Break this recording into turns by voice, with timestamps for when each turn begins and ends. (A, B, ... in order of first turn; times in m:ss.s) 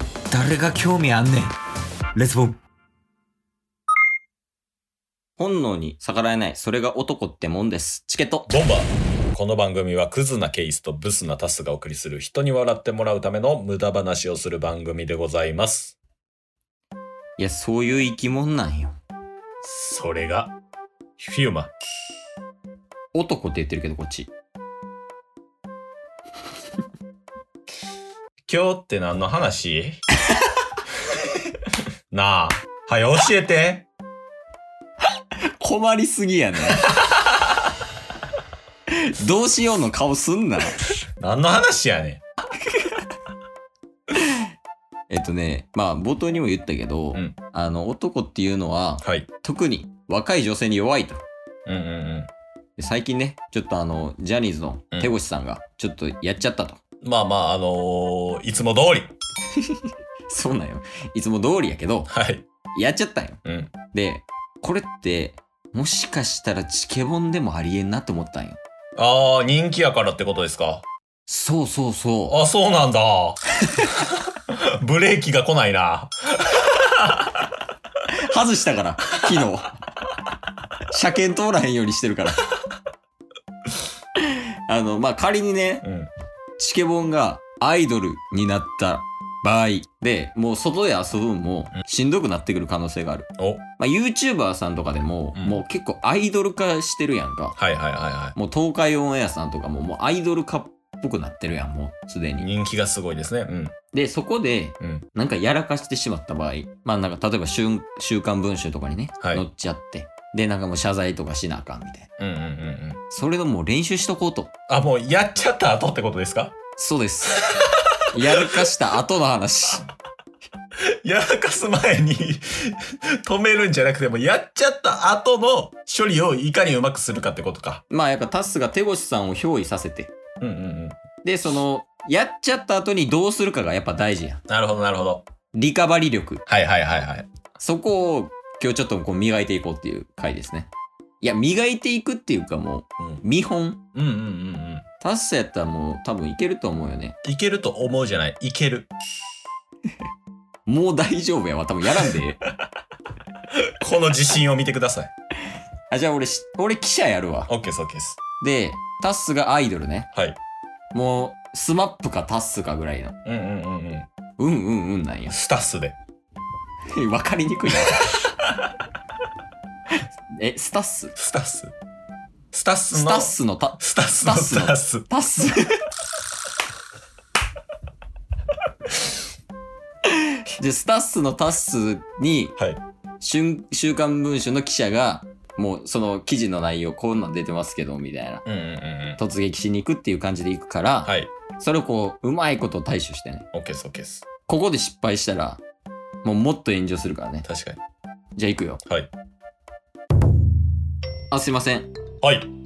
0:00.3-0:01.6 A
0:02.1-0:02.6 A
0:05.4-0:08.5 A
0:08.5-0:16.0 B
0:17.4-0:19.0 A
0:19.6-0:20.5 B
0:21.2-0:21.7 B
0:23.1-0:24.3 A
0:28.4-0:30.0 B
0:32.1-0:33.9 B
0:35.6-0:36.9 A
0:36.9-0:37.2 B
0:38.9-0:40.8 A
0:41.2-0:42.2 B
0:42.6-0:43.0 A
0:44.2-0:44.4 A
0:45.1-0:51.2 A
0:49.0-0:49.3 B
0:51.7-0:52.3 B
0:52.8-0:56.8 A
0:57.0-0:59.1 B
0:59.5-1:02.1 A
1:02.1-1:02.5 B
1:02.7-1:03.4 A
1:03.4-1:03.7 B
1:03.9-1:08.6 A
1:09.0-1:10.8 B
1:11.3-1:12.4 A
1:12.3-1:17.4 B
1:13.6-1:13.9 A
1:18.0-1:19.8 A
1:20.9-1:22.5 A
1:24.2-1:25.8 A
1:25.8-1:26.1 B
1:26.6-1:37.6 A
1:37.6-1:38.4 B
1:38.4-1:42.5 A
1:42.4-1:43.7 B
1:43.9-1:52.1 A
1:44.8-1:45.1 B
1:52.2-1:53.0 B
1:53.1-1:54.5 A
1:54.7-1:56.6 B
1:56.8-1:57.4 A
1:57.4-1:58.6 B
1:58.1-1:59.9 A
2:00.8-2:07.8 B
2:07.9-2:10.1 A
2:10.4-2:11.0 B
2:11.2-2:14.4 A
2:14.5-2:15.2 B
2:15.5-2:16.4 A
2:16.5-2:17.3 B
2:17.6-2:20.7 A
2:21.2-2:23.8 A
2:23.9-2:24.8 B
2:25.0-2:27.2 A
2:27.2-2:28.9 B
2:30.7-2:32.4 A
2:33.7-2:35.1 B
2:35.9-2:37.5 A
2:37.5-2:38.2 B
2:38.4-2:40.1 A
2:40.9-2:43.2 A
2:43.2-2:44.1 B
2:44.4-2:45.4 A
2:45.3-2:46.0 B
2:46.9-2:48.2 A
2:47.8-2:48.2 B
2:49.9-2:51.2 A
2:51.2-2:51.7 B
2:52.5-2:55.1 B
2:52.9-2:55.8 A
3:00.1-3:02.6 A
3:03.2-3:08.4 A
3:08.5-3:09.2 B
3:09.2-3:13.5 A
3:11.0-3:11.3 B
3:13.5-3:14.2 B
3:14.5-3:15.6 A
3:16.2-3:17.5 A
3:17.4-3:17.8 B
3:18.4-3:18.8 A
3:21.3-3:21.9 A
3:22.2-3:22.5 B